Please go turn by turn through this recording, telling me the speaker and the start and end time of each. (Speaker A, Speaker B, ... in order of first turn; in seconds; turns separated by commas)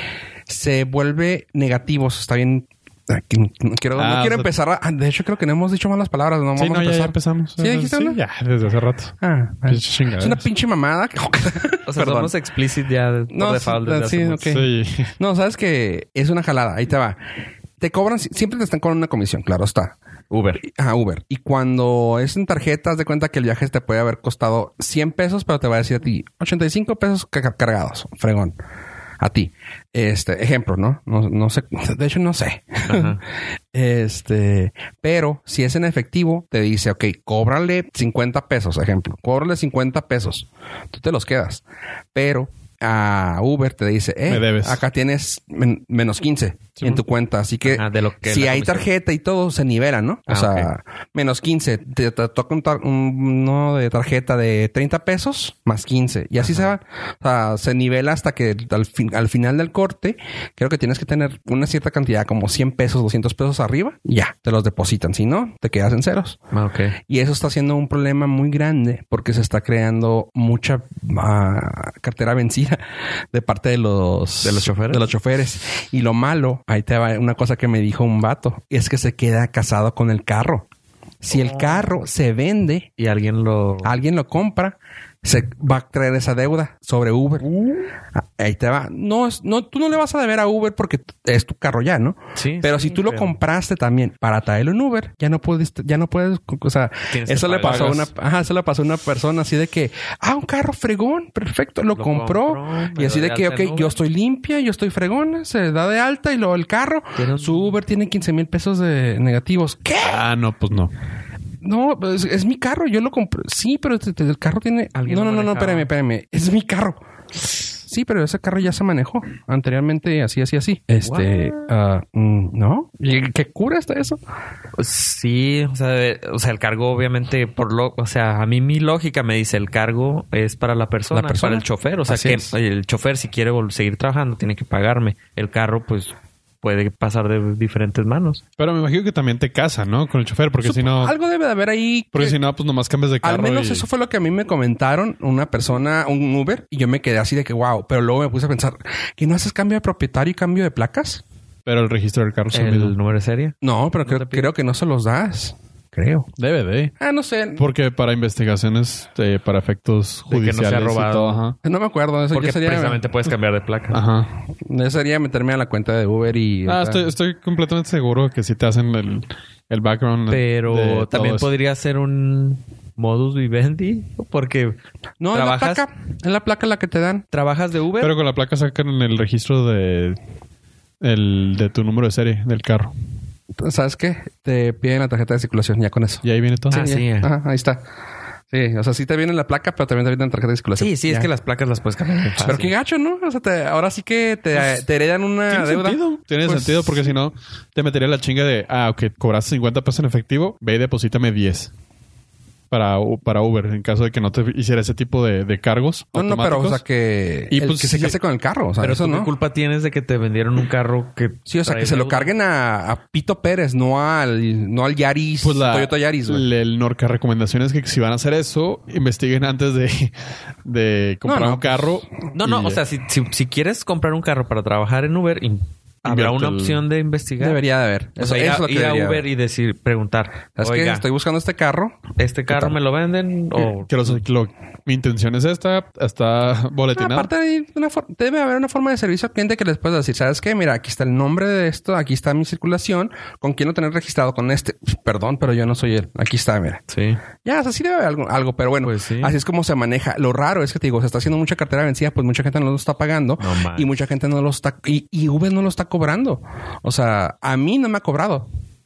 Speaker A: 0.5-8.2, Speaker B: 3.9-4.5, Speaker B: 6.5-9.1, Speaker A: 9.2-12.3, Speaker B: 9.7-10.4, Speaker C: 11.9-14.5, Speaker A: 13.3-17.2, Speaker B: 14.5-15.1, Speaker A: 17.8-19.9, Speaker C: 20.3-20.6, Speaker A: 20.6-28.6, Speaker A: 29.2-33.2, Speaker C: 32.9-33.2, Speaker A: 33.7-41.6, Speaker A: 42.1-66.4, Speaker B: 44.3-44.8, Speaker C: 47.6-48.9, Speaker C: 50.3-50.7, Speaker C: 56.4-56.7, Speaker C: 66.5-67.0, Speaker A: 67.1-72.8, Speaker A: 73.3-80.6, Speaker C: 74.4-75.0, Speaker A: 81.2-82.9, Speaker C: 81.3-81.9, Speaker C: 83.0-83.9, Speaker A: 83.8-87.5, Speaker A: 88.2-110.2, Speaker C: 92.3-93.3, Speaker C: 97.1-98.1, Speaker B: 97.6-98.0, Speaker C: 101.9-104.0, Speaker C: 107.2-107.8, Speaker B: 110.0-110.9, Speaker A: 111.6-117.0, Speaker C: 114.9-115.9, Speaker A: 117.8-124.2, Speaker C: 121.0-121.7, Speaker C: 124.8-138.4, Speaker A: 131.1-132.5, Speaker B: 138.6-141.2, Speaker A: 140.6-142.4, Speaker B: 142.1-143.9, Speaker A: 143.2-151.2, Speaker B: 151.7-152.9, Speaker C: 152.5-154.5, Speaker A: 153.6-156.3, Speaker B: 156.4-156.9, Speaker A: 157.0-157.7, Speaker B: 157.6-161.6, Speaker C: 160.3-161.4, Speaker A: 161.6-163.0, Speaker C: 162.3-164.0, Speaker B: 163.9-164.3, Speaker A: 164.6-167.1, Speaker B: 166.6-171.5, Speaker C: 170.3-174.8, Speaker A: 175.2-177.3, Speaker C: 175.3-175.8, Speaker C: 177.3-178.1, Speaker B: 178.0-180.2, Speaker B: 181.0-182.9, Speaker A: 183.6-187.8, Speaker B: 186.2-186.8, Speaker C: 186.7-187.3, Speaker A: 188.5-191.3, Speaker C: 190.8-192.7, Speaker A: 192.4-197.1, Speaker B: 195.5-201.7, Speaker B: 202.7-206.8, Speaker A: 206.1-209.3, Speaker B: 207.5-208.2, Speaker C: 208.8-212.3, Speaker A: 211.5-216.4, Speaker B: 215.4-222.8, Speaker A: 221.2-222.0, Speaker C: 222.3-227.6, Speaker B: 226.0-226.8, Speaker A: 227.4-229.2, Speaker C: 228.2-231.0, Speaker A: 230.6-232.7, Speaker C: 232.2-234.2, Speaker B: 233.8-237.3, Speaker A: 236.9-246.8, Speaker C: 246.9-247.2, Speaker A: 247.4-258.5, Speaker C: 248.8-249.3, Speaker C: 253.4-253.9